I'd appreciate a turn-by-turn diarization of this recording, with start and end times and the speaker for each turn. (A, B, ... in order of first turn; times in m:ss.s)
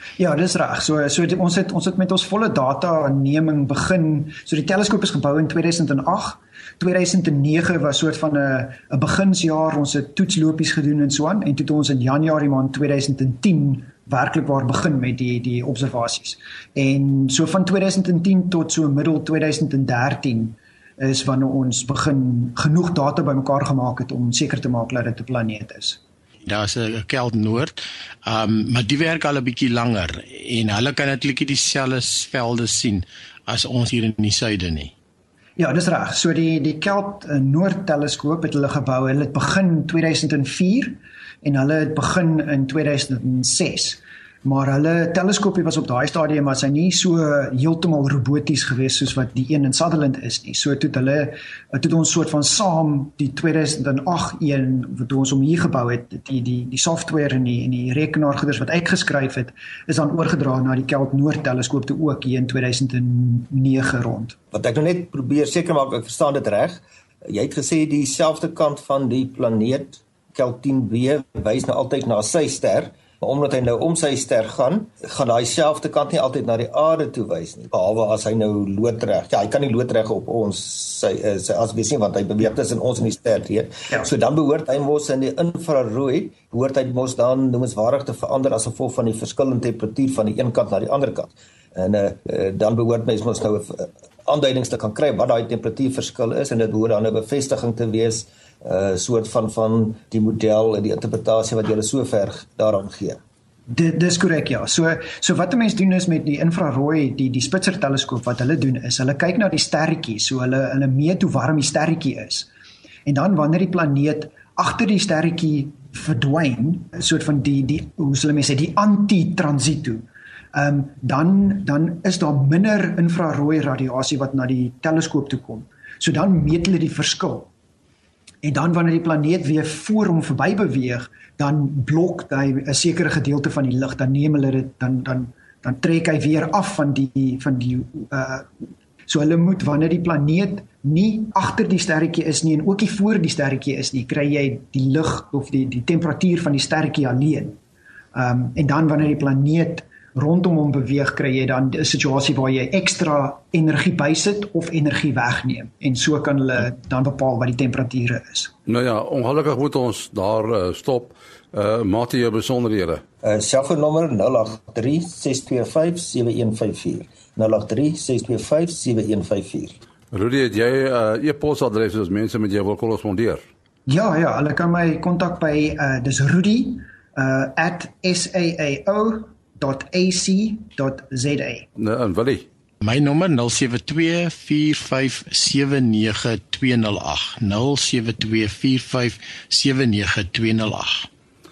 0:00.2-0:26.0 A
0:26.4-0:34.9 B
0:35.6-1:04.4 A
1:04.5-1:43.2 C
1:43.7-1:52.5 A
1:53.0-2:07.5 A
2:08.4-2:18.5 A
2:19.1-2:27.6 A
2:28.1-2:38.5 A
2:38.7-2:43.0 D
2:43.2-2:49.8 C
2:50.1-2:53.4 D
2:53.9-3:01.7 A
3:01.8-3:02.4 D
3:02.8-3:11.1 B